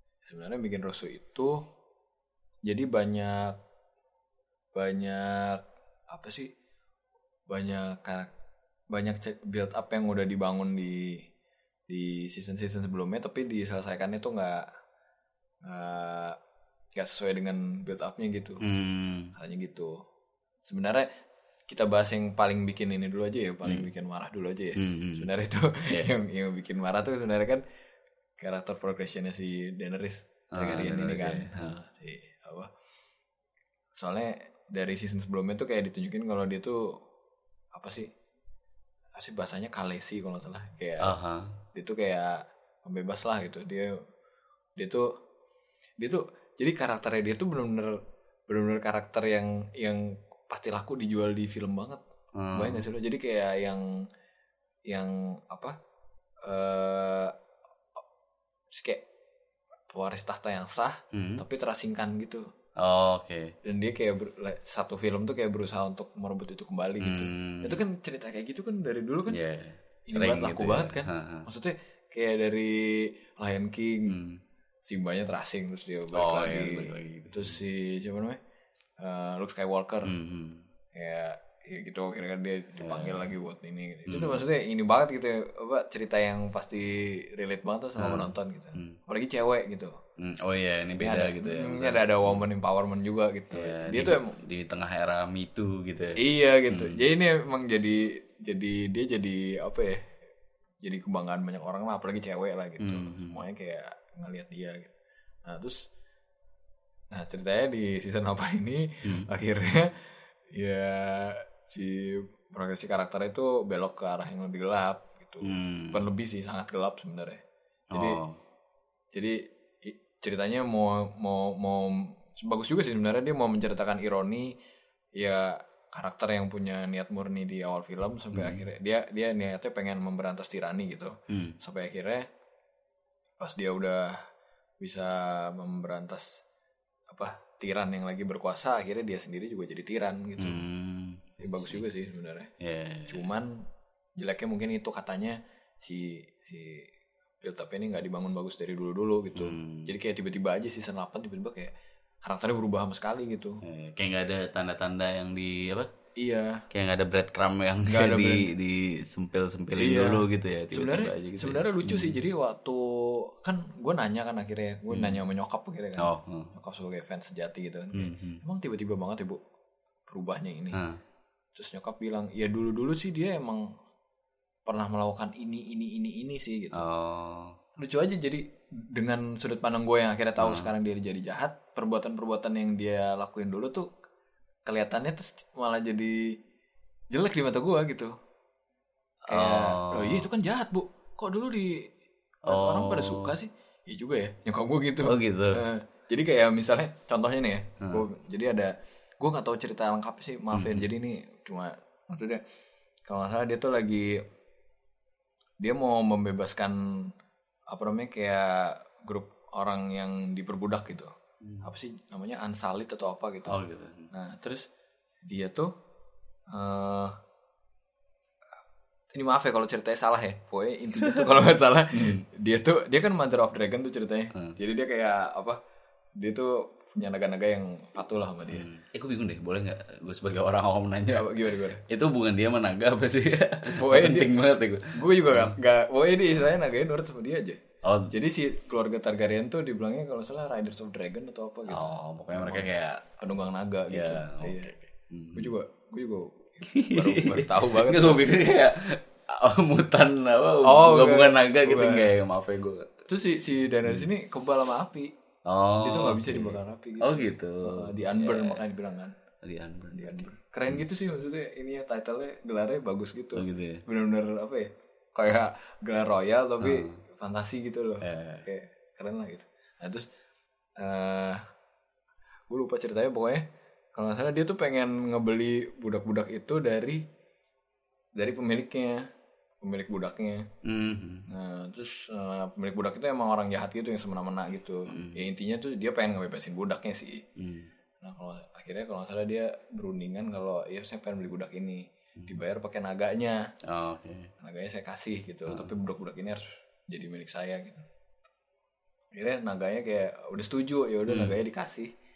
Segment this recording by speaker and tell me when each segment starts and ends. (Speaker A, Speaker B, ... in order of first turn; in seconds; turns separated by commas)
Speaker A: 0.2-1.6, Speaker A: 2.7-3.6, Speaker A: 4.8-6.5, Speaker A: 7.5-8.3, Speaker A: 8.9-11.2, Speaker A: 11.9-14.7, Speaker A: 15.6-16.4, Speaker A: 16.9-18.6, Speaker B: 18.6-19.3, Speaker A: 19.4-19.9, Speaker A: 20.6-21.1, Speaker A: 21.7-27.6, Speaker B: 24.8-25.3, Speaker A: 28.4-32.7, Speaker B: 30.5-31.8, Speaker A: 34.0-37.0, Speaker A: 37.7-38.1, Speaker A: 39.2-41.2, Speaker B: 41.0-41.6, Speaker A: 41.7-43.9, Speaker A: 44.8-45.1, Speaker A: 46.0-48.0, Speaker A: 48.5-52.0, Speaker B: 52.4-52.9, Speaker A: 52.5-53.9, Speaker A: 54.9-55.8, Speaker A: 56.4-57.3, Speaker A: 58.7-59.0, Speaker A: 59.9-62.4, Speaker B: 61.1-61.4, Speaker B: 62.8-63.5, Speaker A: 63.6-69.4, Speaker B: 67.0-67.8, Speaker B: 69.3-71.5, Speaker A: 70.1-74.2, Speaker B: 74.1-74.4, Speaker A: 74.8-78.4, Speaker B: 76.1-77.6, Speaker A: 79.0-80.1, Speaker B: 80.0-80.7, Speaker A: 80.9-89.9, Speaker B: 82.8-83.3, Speaker B: 84.1-84.4, Speaker B: 88.0-89.0, Speaker B: 90.2-92.5, Speaker A: 91.0-94.4, Speaker B: 93.5-97.0, Speaker A: 96.2-100.1, Speaker A: 100.8-104.9, Speaker B: 102.8-103.4, Speaker A: 105.5-105.8, Speaker A: 107.1-117.4, Speaker B: 115.4-116.0, Speaker A: 117.9-118.2, Speaker B: 117.9-118.4, Speaker A: 119.1-124.5, Speaker A: 125.2-132.3, Speaker B: 128.3-128.6, Speaker B: 131.3-131.6, Speaker A: 133.4-134.2, Speaker A: 134.8-136.4, Speaker A: 137.1-140.6, Speaker B: 140.4-141.8, Speaker A: 141.4-142.5, Speaker B: 142.6-143.3, Speaker A: 143.1-143.7, Speaker A: 144.2-151.7, Speaker B: 149.3-149.9, Speaker A: 152.2-153.6, Speaker B: 153.6-155.9, Speaker A: 156.2-156.6, Speaker B: 156.7-162.2, Speaker A: 157.9-158.5, Speaker A: 159.8-169.4, Speaker B: 164.9-165.2, Speaker B: 166.0-166.5, Speaker B: 167.9-168.4, Speaker A: 170.1-170.8, Speaker B: 170.7-171.0, Speaker A: 171.6-173.7, Speaker A: 174.7-176.8, Speaker B: 176.7-177.6, Speaker A: 177.8-183.9, Speaker B: 180.4-180.7, Speaker A: 184.7-186.2, Speaker A: 187.1-188.1, Speaker B: 189.3-190.3, Speaker A: 189.3-191.9, Speaker B: 192.4-193.3, Speaker A: 192.5-202.4, Speaker B: 195.0-195.6, Speaker B: 197.8-198.1, Speaker B: 200.5-200.9, Speaker A: 203.1-204.2, Speaker A: 205.6-207.1, Speaker A: 207.7-213.6, Speaker B: 211.4-211.7, Speaker B: 213.5-214.1, Speaker A: 214.1-214.7, Speaker A: 215.3-215.7, Speaker A: 216.5-217.2, Speaker A: 219.1-225.6, Speaker B: 221.9-222.2, Speaker A: 226.2-228.7, Speaker B: 228.5-231.3, Speaker A: 231.1-231.8, Speaker B: 231.8-235.6, Speaker A: 233.7-234.3, Speaker A: 234.9-237.6, Speaker B: 237.8-238.1, Speaker A: 238.1-244.7, Speaker B: 241.7-243.2, Speaker B: 243.9-245.5, Speaker A: 245.3-248.3, Speaker B: 246.7-252.9, Speaker A: 250.7-252.1, Speaker A: 253.1-255.1, Speaker B: 255.5-258.6, Speaker A: 255.8-259.2, Speaker B: 259.4-260.8, Speaker A: 259.9-270.1, Speaker B: 263.4-263.8, Speaker B: 266.6-267.0, Speaker B: 268.0-268.5, Speaker A: 270.8-271.4, Speaker A: 272.5-273.4, Speaker A: 273.9-277.0, Speaker A: 278.2-279.0, Speaker A: 279.6-280.5, Speaker B: 280.6-281.3, Speaker A: 281.3-287.2, Speaker B: 284.9-285.2, Speaker B: 287.4-287.7, Speaker A: 288.0-293.4, Speaker B: 293.6-294.3, Speaker A: 294.4-297.9, Speaker A: 299.1-301.9, Speaker B: 301.1-301.3